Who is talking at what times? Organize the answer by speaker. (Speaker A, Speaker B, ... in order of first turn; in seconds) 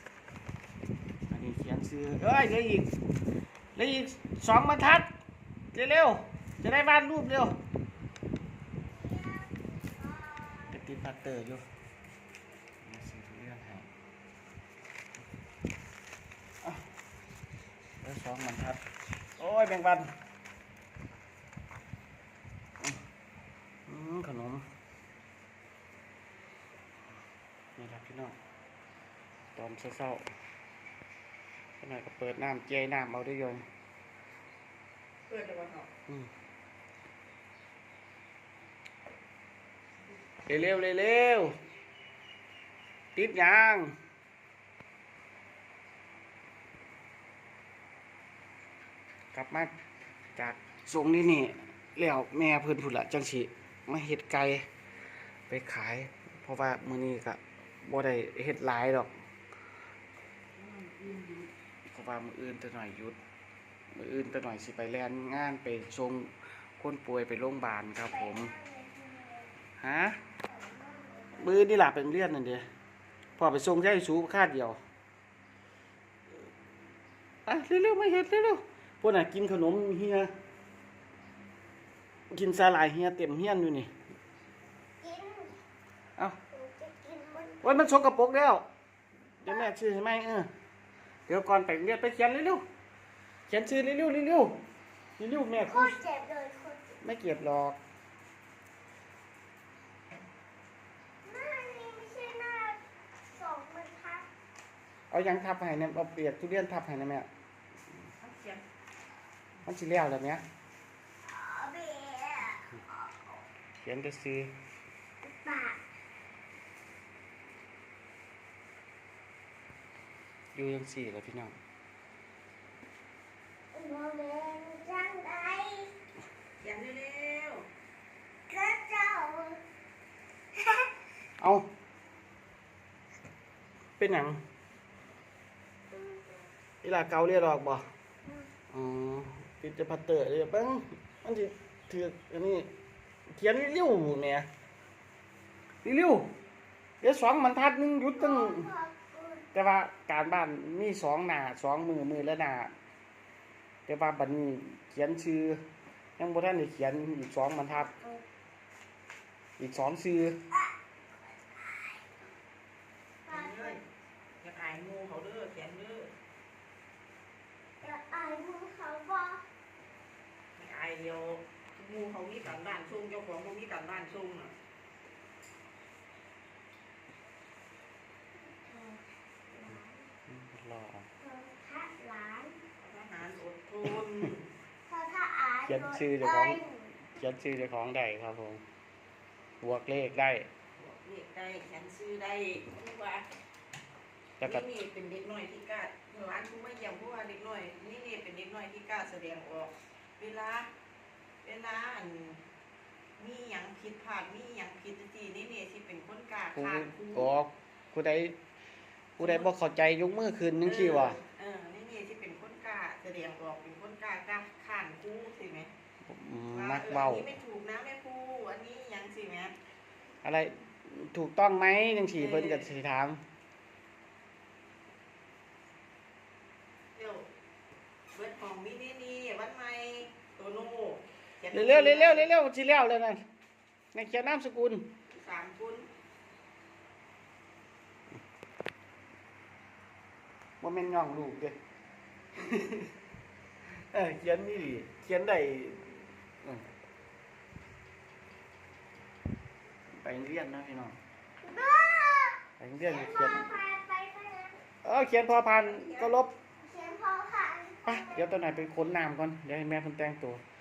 Speaker A: 1.3-3.0, 3.7-5.1, 5.7-7.5, 10.7-11.6, 12.8-13.9, 18.0-18.8, 19.4-20.1, 23.9-24.6, 27.8-28.4, 29.5-30.2, 31.8-33.6, 40.5-41.5, 43.1-43.9, 49.3-49.7, 50.4-54.6, 55.5-59.1, 61.9-63.2, 63.9-68.5, 69.8-70.2, 71.4-72.6, 73.4-74.8, 77.5-80.3, 82.3-83.9, 87.6-88.7, 89.4-90.5, 91.3-92.6, 93.5-94.6, 95.2-96.0, 97.0-97.8, 105.1-107.3, 109.6-110.4, 113.8-114.5, 120.5-121.5, 131.4-131.7, 134.0-134.4, 136.8-137.9, 138.7-142.7, 143.3-144.5, 145.8-146.3, 147.0-148.7, 149.5-152.7, 153.9-155.6, 156.2-157.9, 159.6-160.4, 180.3-181.1, 185.7-188.6, 189.6-190.5, 194.4-194.7, 206.5-208.3, 209.2-211.2, 216.0-217.3, 220.2-223.2, 231.5-233.2, 233.9-234.9, 240.6-241.6, 242.3-242.9, 243.7-246.6, 250.0-251.0, 252.6-253.4, 254.8-256.3, 257.9-260.4
Speaker B: 8.9-10.9, 68.1-69.5, 70.4-71.8, 85.0-85.5, 86.5-87.9, 95.7-97.0, 101.2-102.8, 103.3-104.3, 111.2-113.0, 115.2-115.8, 123.7-125.9, 128.5-129.6, 130.5-130.9, 135.9-136.4, 148.1-149.5, 157.8-158.2, 161.5-162.1, 163.2-163.8, 167.8-169.4, 178.5-180.1, 181.2-182.6, 184.9-187.1, 251.4-254.6, 256.6-258.7
Speaker C: 35.3-35.9, 60.5-61.5, 108.2-108.6, 126.6-127.7, 163.3-163.8, 164.4-166.1, 170.6-174.5, 182.8-184.4, 190.7-193.3, 194.4-200.7, 201.4-202.4, 203.2-207.3, 209.2-209.5, 210.6-215.7, 216.5-219.5, 222.2-222.7, 226.9-227.3, 228.1-232.3, 235.1-235.9, 255.6-256.2